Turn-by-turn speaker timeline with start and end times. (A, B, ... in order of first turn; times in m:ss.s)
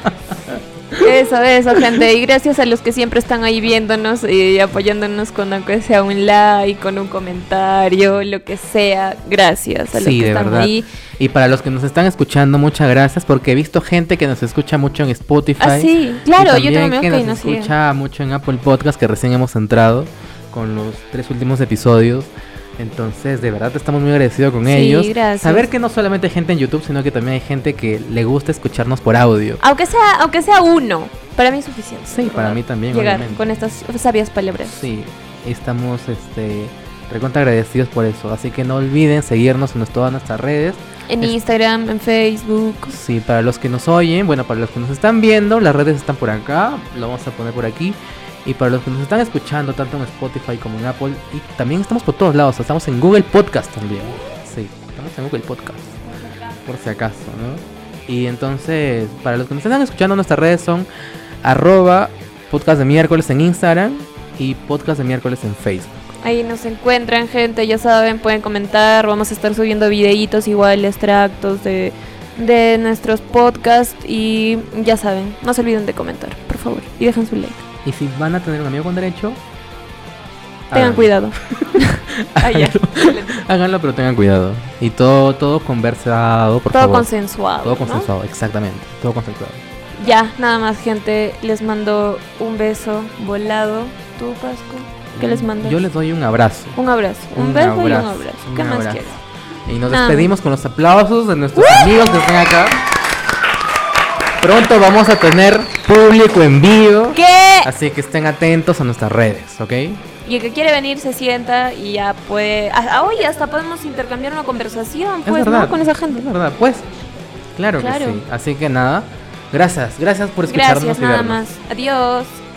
0:00.5-0:01.1 A
0:01.0-0:10.9 B
0:09.9-0:29.6 A
0:15.6-0:17.7 B
0:24.6-0:25.7 B
0:29.6-0:34.8 B
0:32.1-0:33.5 A
0:34.7-0:41.4 A
0:41.1-0:43.0 B
0:42.9-0:56.0 A
0:56.0-0:56.8 B
0:56.6-1:00.9 A
1:01.4-1:06.1 A
1:06.2-1:17.6 B
1:17.8-1:19.4 A
1:20.7-1:27.1 A
1:20.7-1:23.4 B
1:26.7-1:28.1 B
1:27.6-1:29.6 A
1:30.0-1:35.8 B
1:35.2-1:36.8 A
1:36.8-1:39.2 B
1:37.3-1:39.1 A
1:39.7-1:42.8 A
1:39.9-1:40.3 B
1:41.5-1:42.3 B
1:44.4-1:50.0 A
1:47.1-1:47.7 B
1:50.2-1:56.3 B
1:55.2-1:56.9 A
1:57.6-2:01.4 A
1:57.8-1:58.2 B
2:00.4-2:02.4 B